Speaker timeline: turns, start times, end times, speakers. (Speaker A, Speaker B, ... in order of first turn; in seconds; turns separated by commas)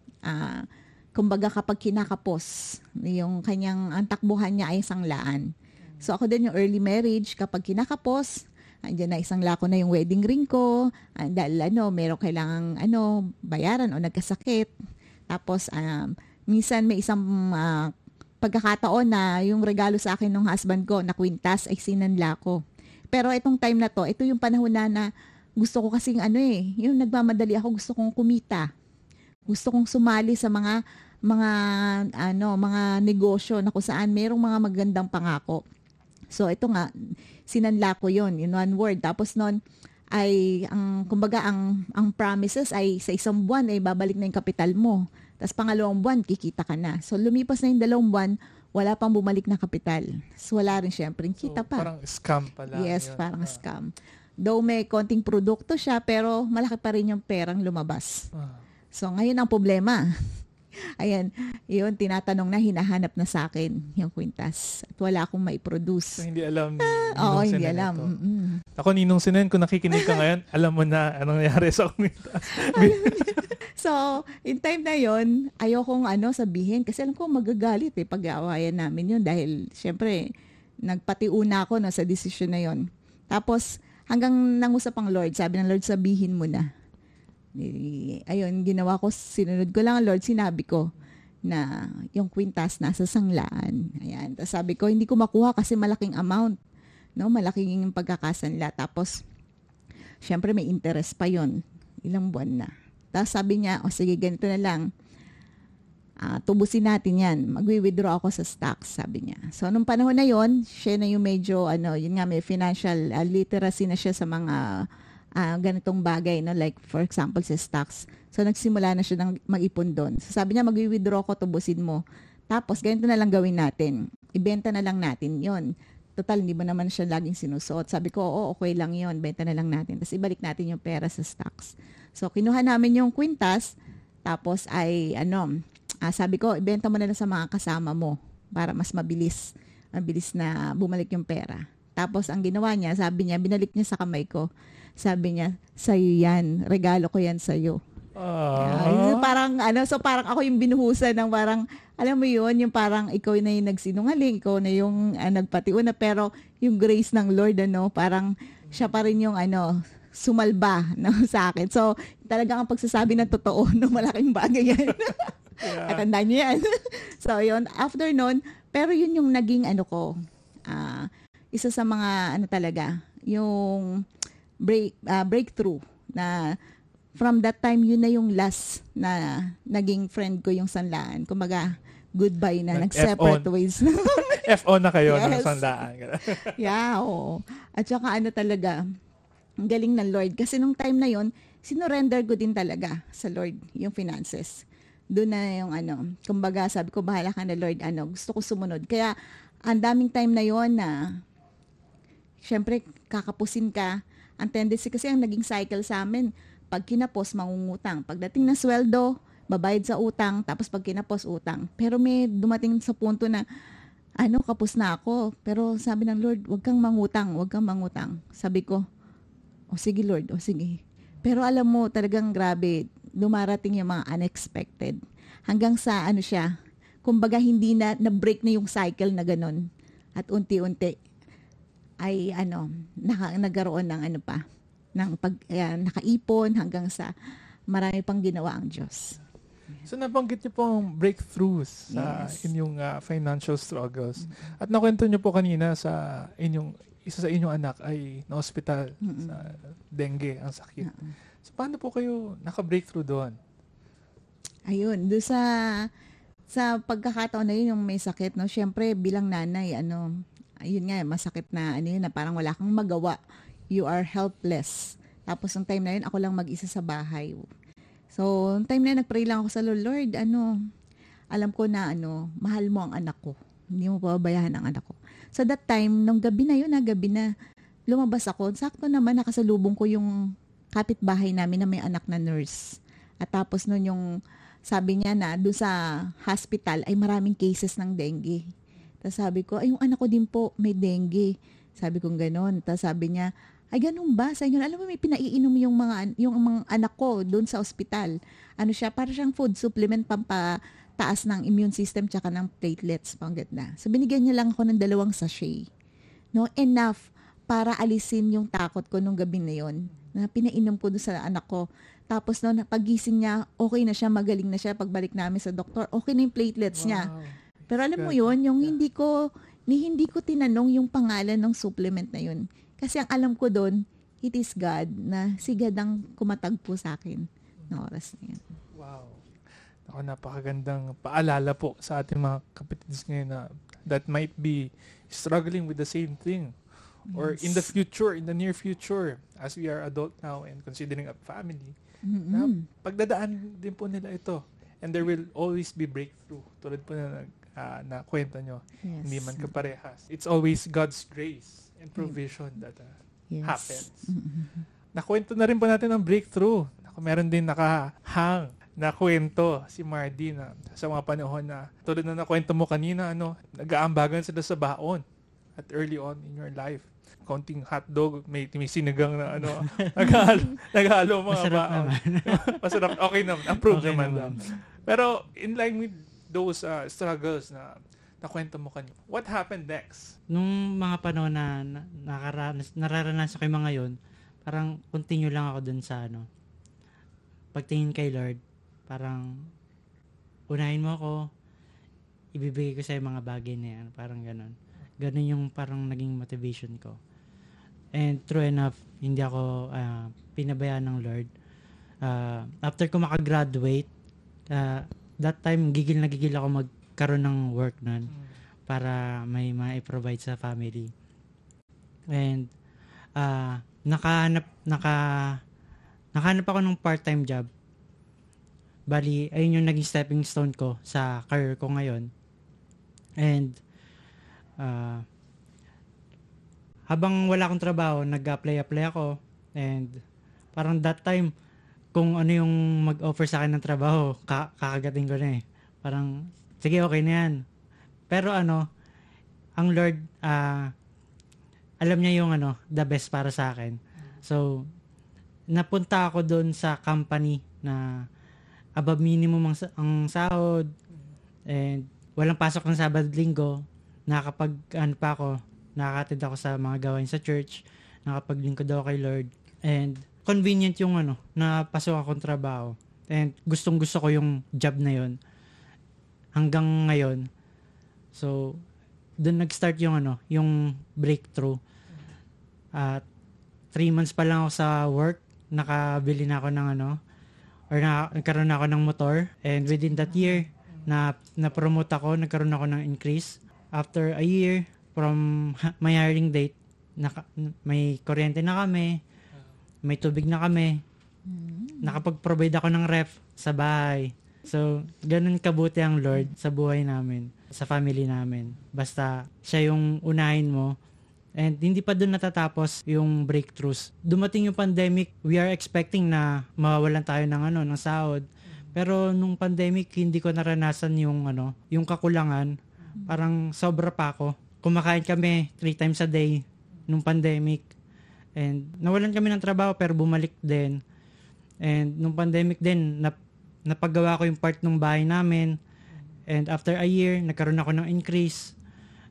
Speaker A: 0.2-14.7, Speaker A: 15.3-22.6, Speaker A: 23.1-25.1, Speaker A: 25.6-28.7, Speaker A: 29.5-35.6, Speaker A: 36.3-36.9, Speaker A: 37.5-39.6, Speaker A: 40.1-51.9, Speaker B: 51.4-53.6, Speaker A: 52.7-53.9, Speaker A: 54.4-58.3, Speaker B: 58.4-58.6, Speaker A: 58.9-60.0, Speaker A: 61.0-66.2, Speaker B: 66.2-68.1, Speaker A: 66.8-68.6, Speaker B: 68.8-73.5, Speaker A: 69.9-70.2, Speaker A: 72.5-80.3, Speaker A: 80.8-86.7, Speaker A: 87.6-90.9, Speaker A: 91.5-96.6, Speaker A: 97.2-99.2, Speaker A: 100.2-104.9, Speaker A: 106.2-114.9, Speaker A: 115.4-125.6, Speaker A: 126.2-135.5, Speaker A: 136.0-147.8, Speaker B: 148.2-149.4, Speaker A: 148.6-170.1, Speaker B: 165.6-166.1, Speaker A: 170.7-174.1, Speaker A: 174.6-176.6, Speaker A: 177.2-184.5, Speaker B: 182.7-183.5, Speaker B: 184.2-186.7, Speaker A: 185.1-185.7, Speaker A: 186.3-188.8, Speaker A: 189.6-199.1, Speaker A: 199.7-200.9, Speaker A: 202.4-213.4, Speaker A: 214.2-218.8, Speaker A: 219.7-226.5, Speaker A: 227.0-231.0, Speaker A: 232.0-234.4, Speaker A: 234.9-237.1, Speaker A: 237.7-239.2, Speaker B: 239.8-250.9, Speaker A: 241.9-242.5, Speaker A: 249.0-249.5, Speaker A: 250.8-251.1, Speaker B: 251.4-253.4, Speaker A: 254.7-255.9, Speaker A: 256.5-260.1, Speaker A: 260.6-263.2, Speaker A: 263.7-267.4, Speaker A: 268.1-270.6, Speaker A: 271.3-277.3, Speaker A: 277.9-280.1, Speaker A: 280.7-284.0, Speaker A: 284.7-288.5, Speaker A: 289.0-305.7, Speaker A: 306.3-317.1, Speaker B: 316.7-317.4, Speaker A: 317.7-319.2, Speaker B: 317.9-318.8, Speaker A: 319.7-328.4, Speaker B: 328.7-329.2, Speaker B: 329.9-336.6, Speaker A: 337.1-337.7, Speaker B: 337.1-341.8, Speaker A: 342.1-342.6, Speaker B: 342.3-354.1, Speaker A: 348.8-349.6, Speaker A: 353.3-354.6, Speaker B: 354.9-365.0, Speaker B: 365.6-380.1, Speaker C: 369.5-369.9, Speaker C: 371.3-372.8, Speaker C: 373.6-374.4, Speaker C: 380.3-386.3, Speaker C: 387.5-389.5, Speaker C: 390.5-391.3, Speaker C: 392.4-397.0, Speaker C: 397.9-401.3, Speaker C: 402.0-403.9, Speaker C: 404.5-408.1, Speaker C: 408.7-410.9, Speaker C: 412.1-412.5, Speaker C: 413.2-415.4, Speaker C: 416.1-417.5, Speaker C: 418.9-422.1, Speaker C: 423.2-423.6, Speaker C: 424.6-425.1, Speaker C: 426.9-430.0, Speaker C: 430.6-431.3, Speaker C: 431.9-437.4, Speaker C: 438.1-438.6, Speaker C: 439.6-440.7, Speaker C: 441.8-444.7, Speaker C: 445.5-448.0, Speaker C: 448.8-450.7, Speaker C: 451.5-465.2, Speaker C: 466.4-467.3, Speaker C: 468.1-468.6, Speaker C: 469.2-471.6, Speaker C: 472.8-473.1, Speaker C: 473.7-477.0, Speaker C: 477.7-489.0, Speaker A: 480.1-480.4, Speaker C: 489.9-490.8, Speaker A: 491.3-492.0, Speaker C: 491.8-500.8, Speaker C: 501.4-517.6, Speaker C: 518.4-520.8, Speaker C: 521.6-525.6, Speaker C: 526.3-528.5